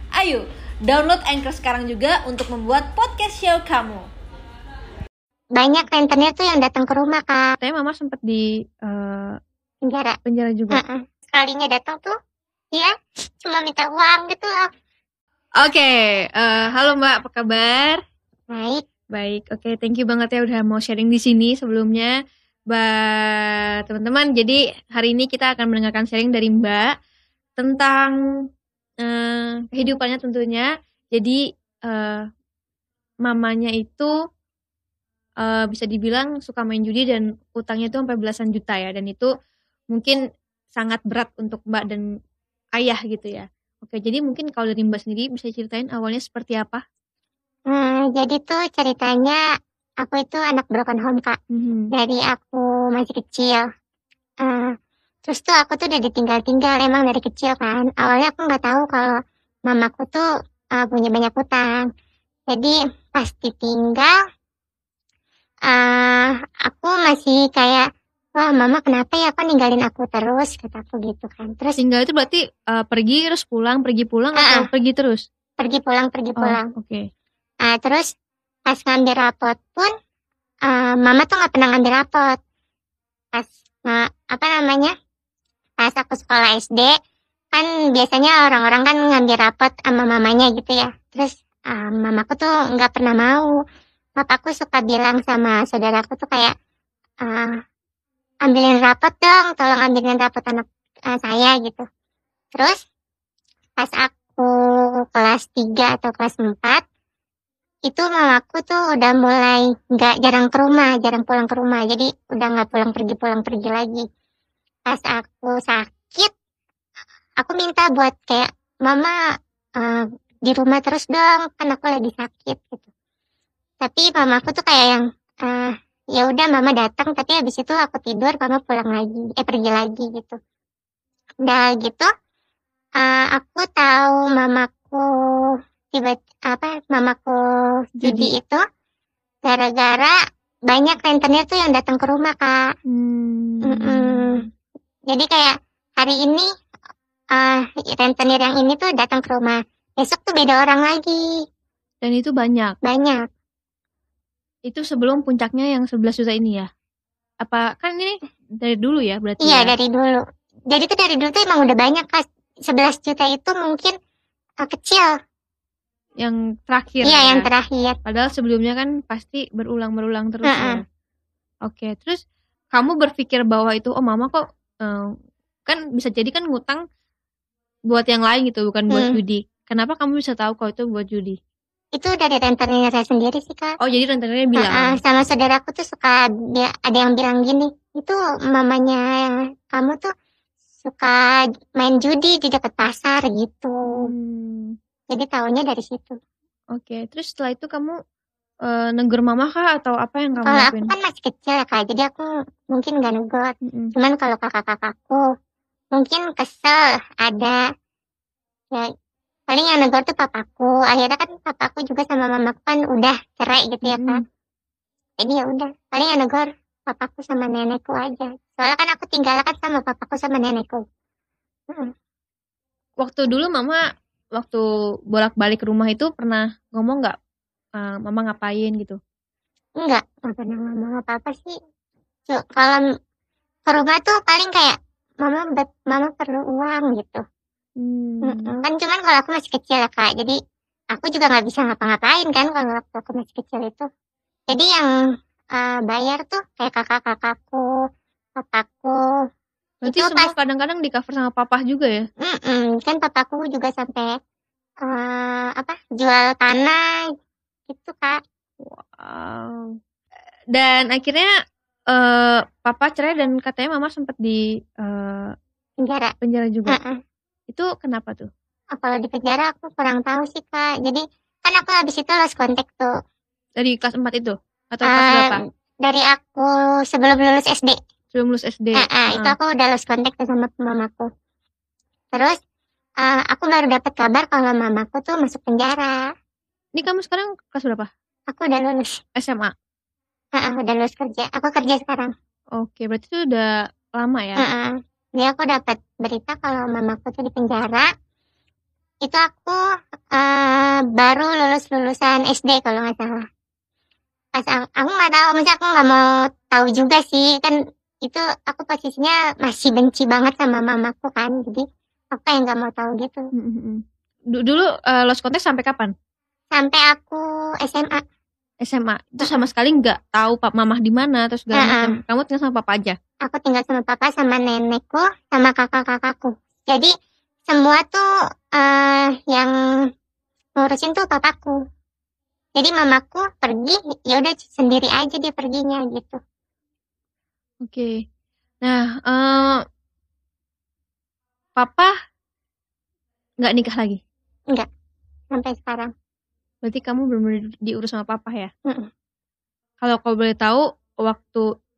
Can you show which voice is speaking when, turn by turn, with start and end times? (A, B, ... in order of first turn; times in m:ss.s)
0:00.1-0:04.1 A
0:05.6-0:07.5 B
0:07.6-0:09.4 C
0:09.8-0:10.2 B
0:10.2-0:10.8 C
0:10.7-0:12.1 B
0:12.7-0:14.7 B
0:15.6-0:18.0 C
0:18.5-0:18.8 B
0:19.1-0:22.1 C
0:22.7-0:26.9 C
0:27.6-0:28.1 C
0:29.0-0:32.2 C
0:33.2-0:34.1 C
0:35.4-0:39.3 C
0:40.7-0:42.0 C
0:42.8-0:46.8 C
0:47.7-0:49.4 B
0:50.0-0:51.4 B
0:51.5-0:51.8 C
0:51.9-0:53.6 B
0:54.4-0:54.7 B
0:55.2-0:59.1 B
0:59.7-1:00.2 B
1:00.8-1:01.9 B
1:02.5-1:04.1 B
1:05.7-1:11.8 B
1:11.8-1:15.2 C
1:14.3-1:14.6 B
1:15.6-1:16.6 B
1:16.4-1:17.0 C
1:17.6-1:18.0 B
1:18.7-1:19.9 B
1:20.7-1:22.4 B
1:23.3-1:24.9 B
1:25.8-1:26.9 B
1:27.5-1:33.5 B
1:34.2-1:36.5 B
1:37.2-1:37.5 B
1:38.4-1:41.8 B
1:43.8-1:44.5 B
1:45.1-1:46.8 B
1:47.9-1:54.0 B
1:54.9-1:56.3 B
1:57.4-1:59.1 B
1:59.8-2:02.9 B
2:03.8-2:10.4 B
2:11.4-2:12.1 B
2:13.0-2:17.4 B
2:18.0-2:18.3 C
2:18.0-2:18.6 B
2:19.4-2:20.2 B
2:20.7-2:22.6 B
2:22.9-2:24.5 C
2:23.6-2:24.4 B
2:25.1-2:26.4 B
2:27.3-2:31.3 B
2:32.0-2:32.8 C
2:32.8-2:33.2 B
2:34.7-2:36.7 C
2:37.4-2:39.7 C
2:39.4-2:43.9 B
2:44.6-2:45.1 B
2:46.2-2:47.5 C
2:47.0-2:48.0 B
2:48.0-2:50.8 C
2:50.4-2:50.8 B
2:51.7-2:52.2 C
2:52.7-2:55.1 C
2:55.6-2:56.8 C
2:57.9-3:01.4 C
2:58.9-2:59.2 B
3:02.0-3:03.7 B
3:03.8-3:05.0 C
3:04.6-3:09.0 B
3:09.7-3:10.0 B
3:10.8-3:14.1 B
3:13.9-3:14.7 C
3:15.1-3:16.2 B
3:16.7-3:18.0 C
3:18.7-3:20.9 C
3:20.4-3:25.2 B
3:25.9-3:27.6 B
3:29.5-3:34.2 B
3:33.8-3:34.2 C
3:35.2-3:40.8 B
3:43.0-3:43.8 C
3:44.4-3:44.6 C
3:45.1-3:47.1 C
3:47.8-3:49.0 C
3:49.8-3:51.5 B
3:52.3-3:52.8 B
3:53.7-3:57.2 B
3:57.8-3:58.5 C
3:58.2-4:00.4 B
4:00.9-4:03.9 B
4:04.5-4:04.9 B
4:05.5-4:07.6 B
4:08.4-4:08.9 B
4:09.8-4:12.0 C
4:09.8-4:10.3 B
4:12.2-4:14.1 B
4:14.8-4:16.8 B
4:17.7-4:18.2 B
4:18.6-4:19.7 C
4:20.5-4:21.3 C
4:21.9-4:25.3 C
4:25.8-4:26.1 B
4:26.2-4:26.8 C
4:26.7-4:27.0 B
4:27.5-4:28.3 C
4:28.7-4:32.9 B
4:33.6-4:35.4 C
4:34.8-4:35.3 B
4:35.8-4:37.8 B
4:38.1-4:39.3 C
4:38.8-4:41.1 B
4:43.0-4:46.0 B
4:46.8-4:47.9 C
4:48.3-4:49.0 B
4:49.2-4:49.5 C
4:50.4-4:52.1 B
4:52.6-4:54.4 C
4:54.4-4:57.9 B
4:59.0-4:59.6 B
5:00.1-5:03.2 B
5:04.4-5:13.2 B
5:13.4-5:13.8 C
5:14.3-5:15.9 C
5:16.5-5:18.0 B
5:18.6-5:23.0 C
5:21.5-5:21.9 B
5:23.2-5:26.9 B
5:27.5-5:28.0 B
5:28.6-5:29.5 B
5:30.6-5:31.6 B
5:32.6-5:36.2 B
5:37.6-5:37.9 C
5:38.6-5:39.6 C
5:41.6-5:41.9 C
5:43.4-5:44.0 C
5:45.3-5:45.9 B
5:46.6-5:48.5 C
5:49.8-5:51.4 C